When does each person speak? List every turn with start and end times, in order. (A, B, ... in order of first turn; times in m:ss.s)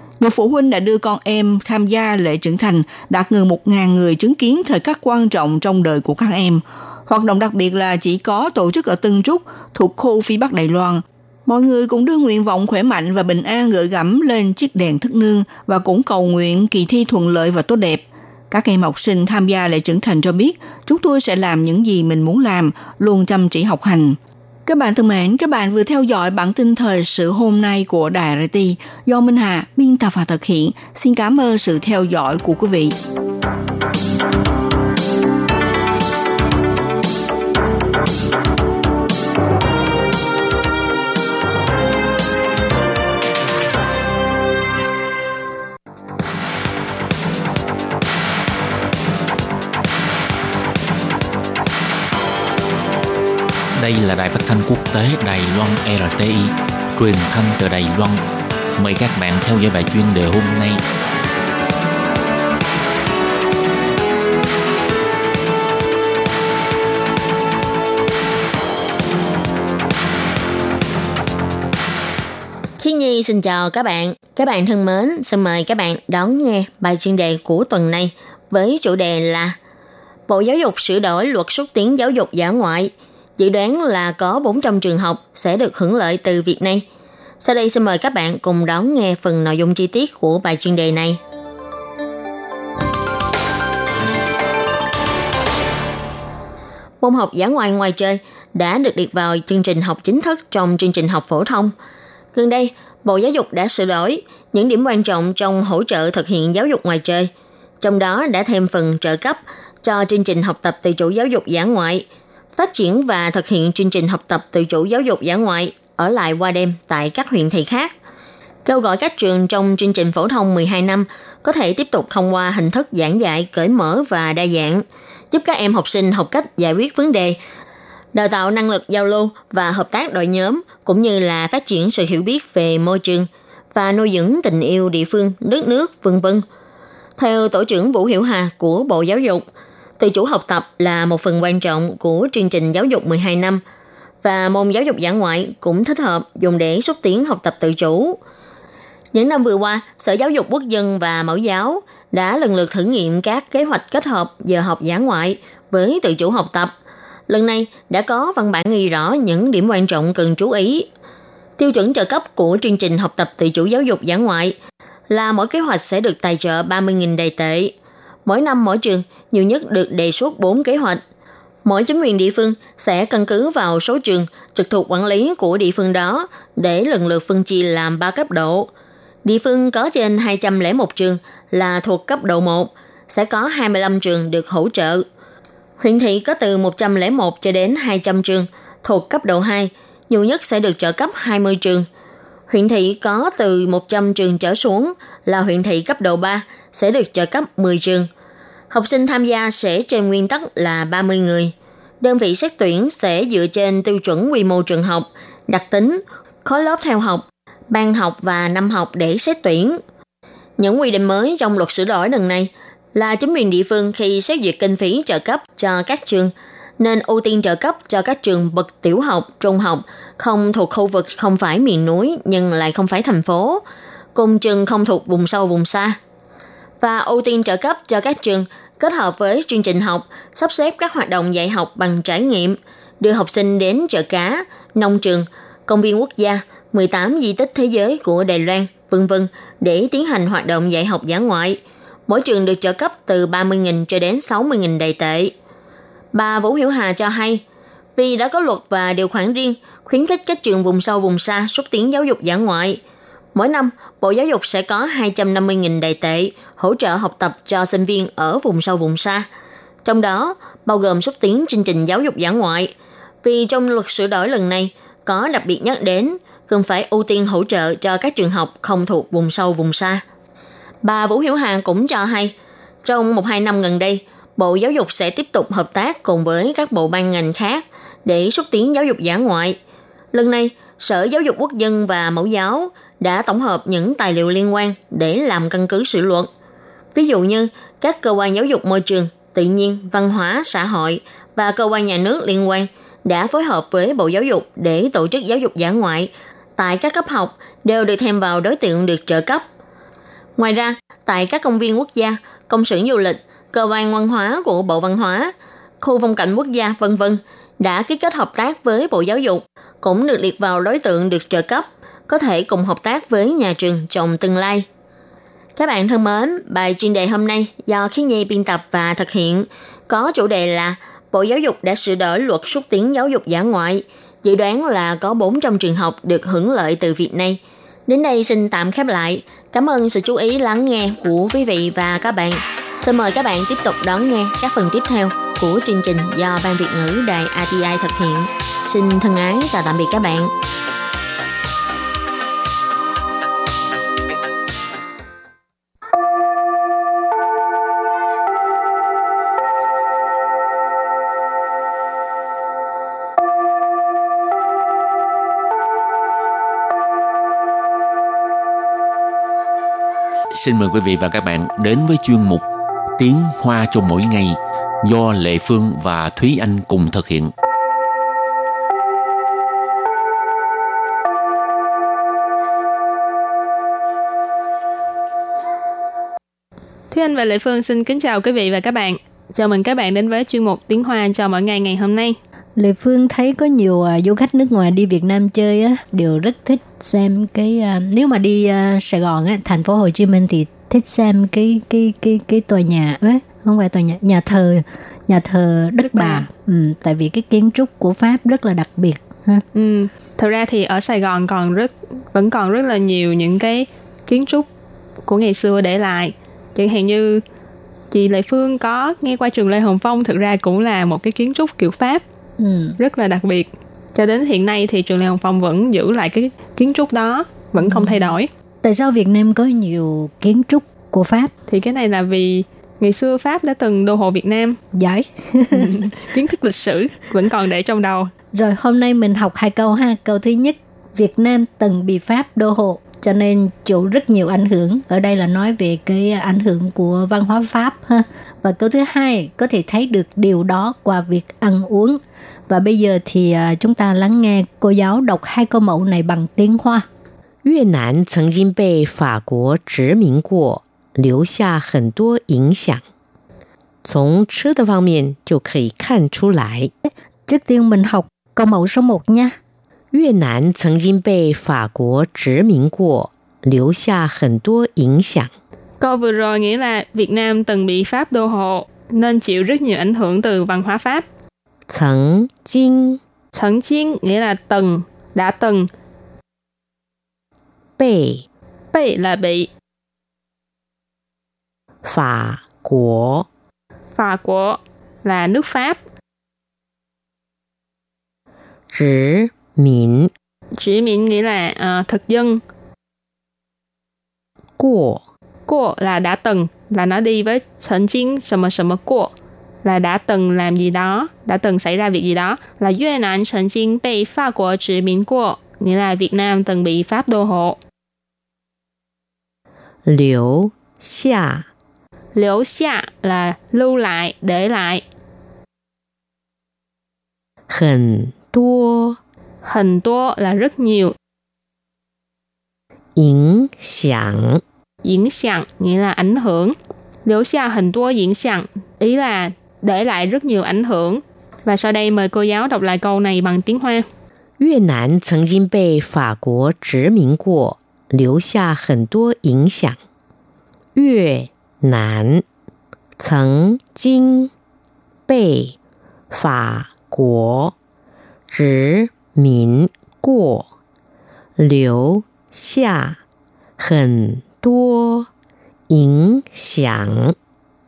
0:00.2-0:33.0 A
0:53.8-0:58.2 B
0:58.8-1:00.8 B
1:12.8-1:19.6 C
1:20.3-1:26.8 C
1:27.4-1:31.2 C
1:37.0-1:41.7 C
1:42.3-1:52.0 C
1:52.6-1:57.9 C
1:58.6-2:07.4 C
2:08.1-2:16.4 C
2:17.2-2:19.4 C
2:20.0-2:23.6 C
2:24.2-2:28.2 C
2:29.1-2:36.7 C
2:37.3-2:40.9 C
2:41.6-2:44.6 C
2:45.1-2:47.7 C
2:48.2-2:51.0 C
2:51.6-2:58.7 C
2:59.2-3:05.0 C
3:05.8-3:11.9 C
3:12.5-3:18.1 C
3:18.7-3:29.8 C
3:30.6-3:43.6 C
3:44.1-3:46.0 C
3:46.8-4:05.3 C
4:06.1-4:07.4 C
4:08.0-4:12.8 C
4:13.4-4:19.3 C
4:19.8-4:22.7 C
4:23.2-4:30.0 C
4:30.8-4:32.3 C
4:32.8-4:39.6 C
4:40.1-4:46.3 C
4:46.9-4:59.4 C
5:00.4-5:14.6 C
5:15.6-5:40.3 C
6:00.3-6:02.4 B
6:03.0-6:07.3 B
6:16.9-6:22.2 D
6:22.6-6:39.4 E
6:35.8-6:36.2 D
6:39.6-6:44.5 D
6:45.0-6:47.2 D
6:47.9-6:52.0 D
6:52.4-6:52.8 E
6:52.8-6:58.3 D
6:57.6-7:01.3 E
7:01.5-7:04.6 D
7:04.7-7:05.9 E
7:05.6-7:08.1 D
7:08.3-7:26.8 E
7:27.4-7:32.8 F
7:33.8-7:36.7 F
7:37.3-7:39.4 E
7:39.9-7:45.3 F
7:45.8-7:51.1 D
7:51.7-7:53.0 F
7:53.3-7:55.7 D
7:57.8-7:58.2 F
7:58.7-7:59.5 D
8:01.8-8:03.2 F
8:04.0-8:05.8 D
8:08.7-8:10.1 F
8:10.6-8:12.4 D
8:14.6-8:15.0 F
8:15.5-8:19.1 D
8:19.6-8:27.6 D
8:29.9-8:31.4 F
8:32.1-8:34.8 D
8:37.5-8:39.0 F
8:39.4-8:40.9 D
8:43.0-8:44.4 F
8:44.8-8:53.9 D
8:54.4-8:59.8 F
9:00.8-9:02.2 F
9:03.0-9:04.3 F
9:05.1-9:05.6 F
9:06.1-9:07.5 F
9:08.3-9:10.5 F
9:11.4-9:13.0 F
9:13.6-9:15.1 F
9:15.7-9:17.1 F